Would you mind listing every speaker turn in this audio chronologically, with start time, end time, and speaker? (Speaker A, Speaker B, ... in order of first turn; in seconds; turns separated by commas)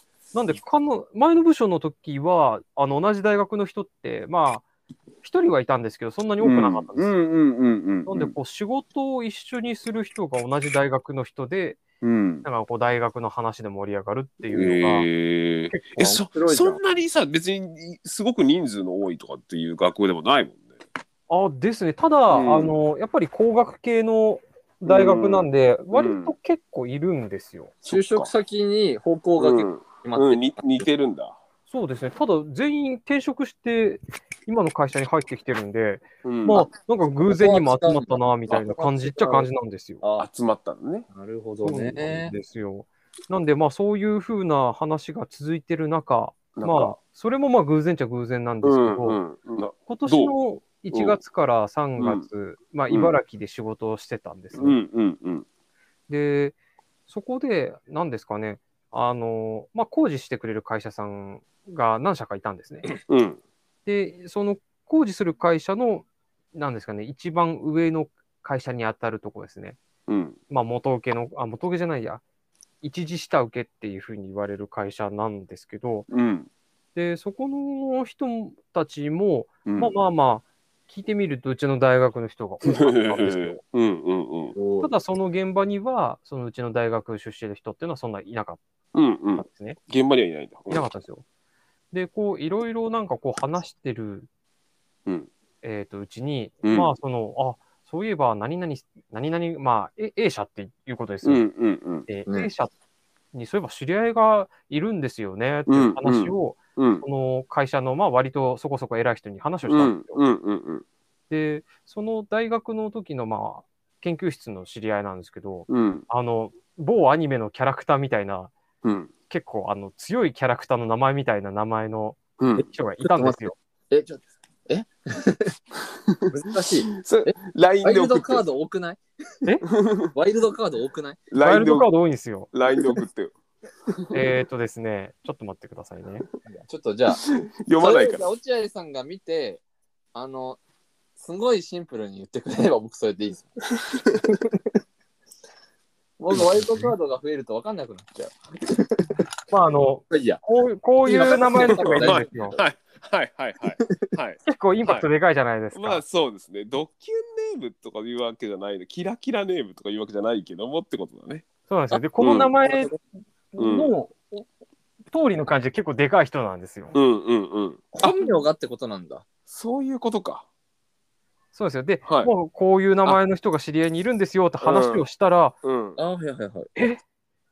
Speaker A: 0.3-4.7, Speaker A: 5.2-7.1, Speaker B: 6.4-8.3, Speaker A: 8.1-11.8, Speaker B: 12.0-12.4, Speaker A: 12.4-15.1, Speaker B: 14.5-20.7, Speaker C: 16.0-16.8, Speaker A: 21.3-27.8, Speaker B: 22.3-22.7, Speaker B: 24.9-26.3, Speaker B: 27.9-28.3, Speaker C: 27.9-30.9, Speaker B: 29.4-31.4, Speaker A: 31.7-40.0, Speaker B: 36.2-36.7, Speaker C: 37.3-39.5, Speaker C: 40.0-40.3, Speaker B: 40.2-41.1, Speaker C: 41.1-42.3, Speaker A: 41.6-49.2, Speaker B: 46.5-47.0, Speaker B: 48.6-50.3, Speaker A: 49.9-54.8, Speaker B: 50.9-51.2, Speaker B: 52.0-52.3, Speaker B: 52.9-53.2, Speaker B: 54.5-55.5, Speaker A: 56.1-56.6, Speaker A: 57.1-63.0, Speaker B: 63.1-63.4, Speaker A: 63.9-69.8, Speaker B: 70.1-70.4, Speaker A: 70.5-72.2, Speaker A: 72.8-76.1, Speaker B: 76.1-76.5, Speaker A: 77.0-83.6, Speaker B: 79.7-79.9, Speaker B: 82.6-84.6, Speaker C: 84.5-84.9, Speaker A: 84.8-88.6, Speaker B: 88.9-90.9, Speaker A: 89.4-89.8, Speaker A: 90.7-91.2, Speaker A: 91.9-94.3, Speaker A: 95.6-101.5, Speaker B: 96.6-96.9, Speaker B: 101.2-102.1, Speaker A: 102.1-102.7, Speaker A: 103.3-110.2, Speaker B: 105.7-107.0, Speaker B: 109.7-110.8, Speaker A: 111.3-118.5, Speaker B: 115.7-116.1, Speaker B: 118.8-119.1, Speaker A: 119.3-123.5, Speaker B: 122.4-122.7, Speaker C: 123.0-125.5, Speaker C: 126.3-129.0, Speaker B: 126.9-128.4, Speaker B: 129.7-130.1, Speaker C: 130.1-131.2, Speaker B: 131.3-131.9, Speaker A: 131.4-132.5, Speaker B: 132.5-133.3, Speaker B: 133.9-134.3, Speaker A: 134.1-136.3, Speaker C: 136.5-137.2, Speaker B: 137.1-138.2, Speaker C: 137.8-139.6, Speaker C: 140.1-140.6, Speaker C: 141.2-143.5, Speaker B: 143.9-144.2, Speaker C: 144.3-144.7, Speaker C: 146.2-149.2, Speaker A: 146.3-146.9, Speaker A: 149.5-152.6, Speaker C: 150.1-150.4, Speaker C: 151.0-152.6, Speaker B: 151.7-155.1, Speaker C: 153.8-154.1, Speaker A: 154.4-156.0, Speaker B: 155.7-161.4, Speaker A: 161.7-162.9, Speaker B: 162.2-162.5, Speaker C: 162.6-163.0, Speaker A: 163.5-164.2, Speaker B: 163.6-163.9, Speaker A: 165.1-167.0, Speaker B: 166.9-168.2, Speaker C: 167.9-169.2, Speaker B: 169.5-170.5, Speaker A: 171.5-175.6, Speaker B: 172.0-172.3, Speaker B: 174.6-175.1, Speaker B: 175.6-176.0, Speaker C: 176.0-176.7, Speaker A: 176.8-177.0